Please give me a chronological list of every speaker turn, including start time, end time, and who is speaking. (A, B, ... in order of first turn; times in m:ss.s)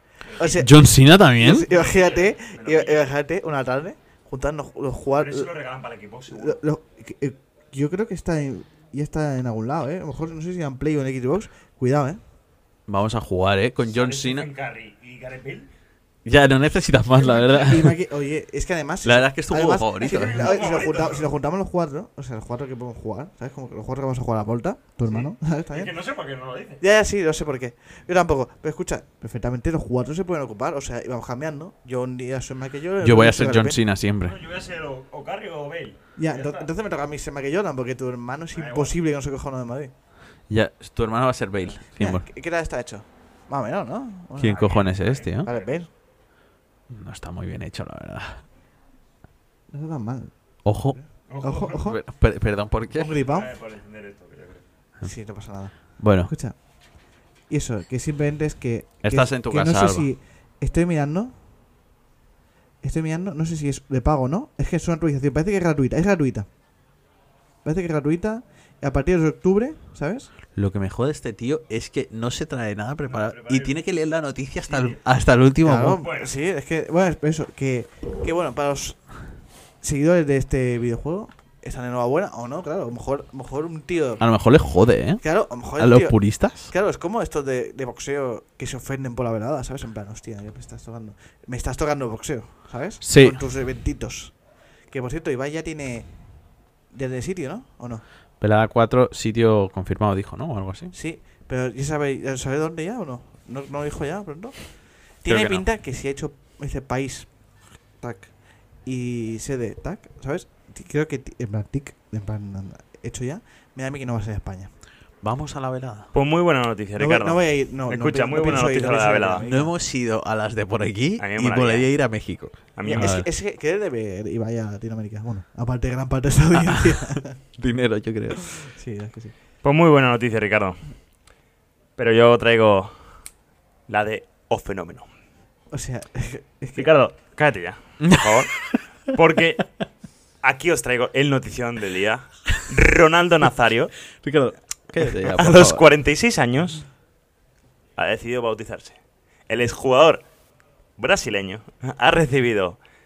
0:00.4-0:05.5 A
0:00.6-0:01.6 B
0:01.6-0:03.1 C
0:05.2-0:06.6 C
0:06.3-0:12.2 A
0:12.9-0:14.5 B
0:13.9-0:15.7 C
0:16.2-0:18.0 B
0:17.5-0:25.9 A
0:19.0-0:20.5 B
0:20.0-0:21.2 C
0:25.1-0:26.8 C
0:26.8-0:33.8 A
0:33.0-0:34.4 B
0:34.2-0:36.7 C
0:36.2-0:39.9 A
0:38.5-0:38.9 C
0:40.5-0:42.2 B
0:42.0-0:44.8 A
0:44.4-0:45.5 B
0:44.5-0:45.7 C
0:45.4-0:45.9 A
0:46.9-0:48.4 B
0:49.7-0:50.3 A
0:50.6-0:51.0 B
0:50.9-0:52.0 A
0:51.3-0:51.8 C
0:51.8-0:53.1 B
0:52.9-0:53.5 A
0:53.2-0:54.6 C
0:55.0-1:01.3 A
0:55.8-0:56.3 B
0:59.0-1:00.1 B
1:02.8-1:06.5 A
1:07.6-1:10.3 A
1:10.5-1:16.0 B
1:13.1-1:13.8 C
1:14.7-1:15.0 C
1:15.6-1:24.2 A
1:16.0-1:16.3 C
1:24.2-1:26.7 B
1:25.2-1:36.3 A
1:33.0-1:33.4 B
1:36.9-1:38.0 A
1:38.4-1:40.9 B
1:40.9-1:47.4 A
1:45.2-1:45.6 B
1:48.0-1:54.7 A
1:55.2-1:56.1 B
1:56.1-1:59.4 C
1:57.0-1:59.7 A
1:59.4-2:03.3 B
2:01.2-2:01.9 C
2:02.8-2:03.2 C
2:02.8-2:07.4 A
2:06.7-2:08.6 B
2:08.5-2:09.3 A
2:09.6-2:10.9 C
2:12.0-2:12.9 C
2:13.9-2:15.1 C
2:15.7-2:16.9 A
2:16.8-2:19.8 C
2:18.0-2:18.8 B
2:20.4-2:24.1 C
2:24.2-2:25.8 B
2:25.3-2:26.8 C
2:28.0-2:29.0 C
2:29.5-2:30.2 C
2:31.0-2:32.8 C